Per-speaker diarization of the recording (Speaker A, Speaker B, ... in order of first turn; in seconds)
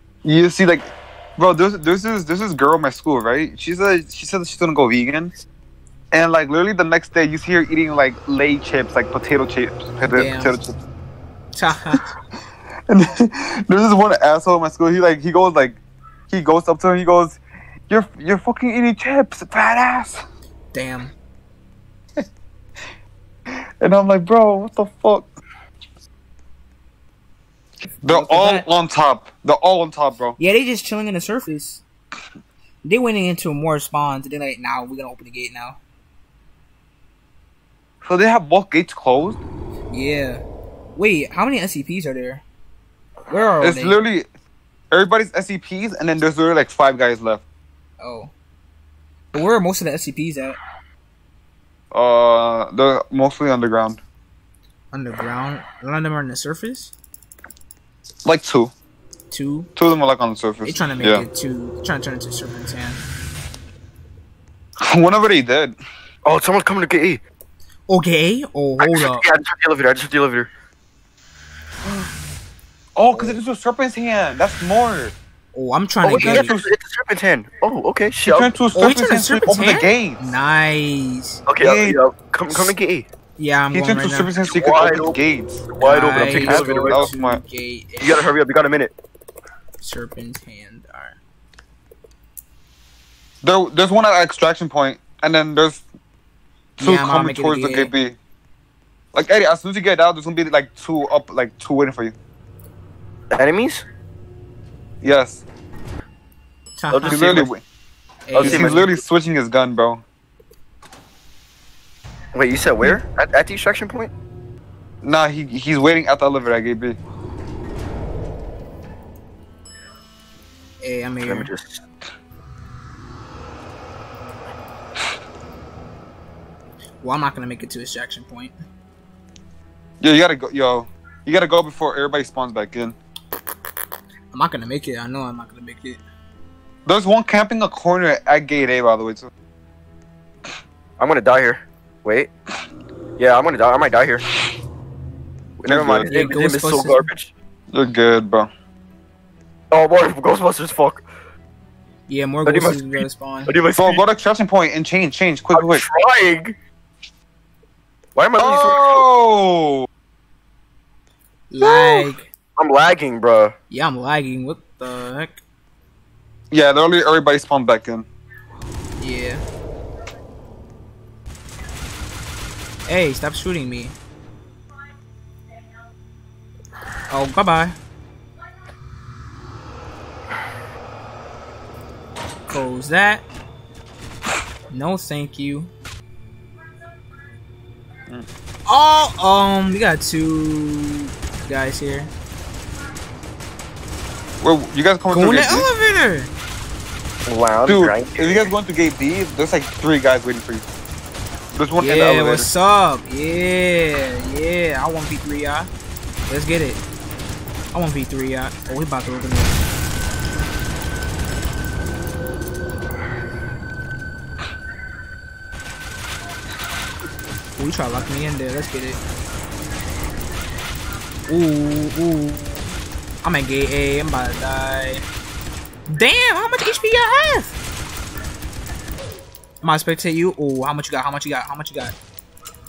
Speaker A: 0.2-5.3, 6.1-10.8, 12.9-20.2, 23.8-25.3, 28.0-30.4, 38.0-39.4, 43.6-44.3, 44.9-47.4, 51.9-54.0, 58.2-58.7, 59.8-61.3, 64.9-65.8, 71.8-72.1, 72.9-75.1, 76.1-76.7, 78.1-80.3, 81.6-82.7, 83.7-85.7, 86.2-87.4, 93.4-95.8, 96.8-98.2, 99.1-102.2, 105.0-105.4, 107.0-107.6, 108.3-110.0, 115.0-117.0, 130.0-133.0, 136.8-139.3, 145.7-146.1, 147.7-148.5, 153.8-155.8, 158.4-159.9, 161.6-162.1, 166.5-168.1, 194.4-195.7, 197.7-200.7, 201.5-202.5
Speaker B: 10.1-10.6, 11.5-12.1, 20.7-21.1, 27.8-28.7, 30.4-31.8, 32.8-35.8, 39.9-40.4, 40.9-42.4, 43.3-44.0, 48.0-48.3, 49.3-50.6, 54.9-56.9, 59.3-59.7, 60.6-63.0, 67.9-69.2, 73.1-73.4, 75.5-76.5, 78.7-81.4, 83.4-84.3, 85.8-88.3, 89.8-91.2, 96.8-97.9, 106.8-107.5, 108.2-108.9, 120.8-121.5, 127.0-128.5, 134.3-136.0, 146.1-147.1, 152.1-153.5, 161.5-162.3, 163.7-165.4, 169.0-169.4, 172.9-173.9, 177.1-177.8, 182.5-183.2, 184.7-185.7, 188.7-192.1, 195.1-196.3, 201.8-205.7, 206.3-206.8, 207.7-209.6, 217.6-219.0, 221.3-225.0, 225.9-227.6, 229.6-231.9
Speaker C: 66.2-67.2, 68.8-70.5, 76.0-78.5, 81.5-83.1, 84.4-85.2, 85.7-87.1, 88.0-88.9, 103.3-103.8, 106.9-107.5, 108.4-109.0, 112.3-114.1, 121.2-121.8, 141.0-142.3, 143.2-144.3, 145.6-147.3, 149.7-151.0, 152.4-154.0, 155.5-156.6, 158.1-159.1, 162.6-163.5, 197.3-198.5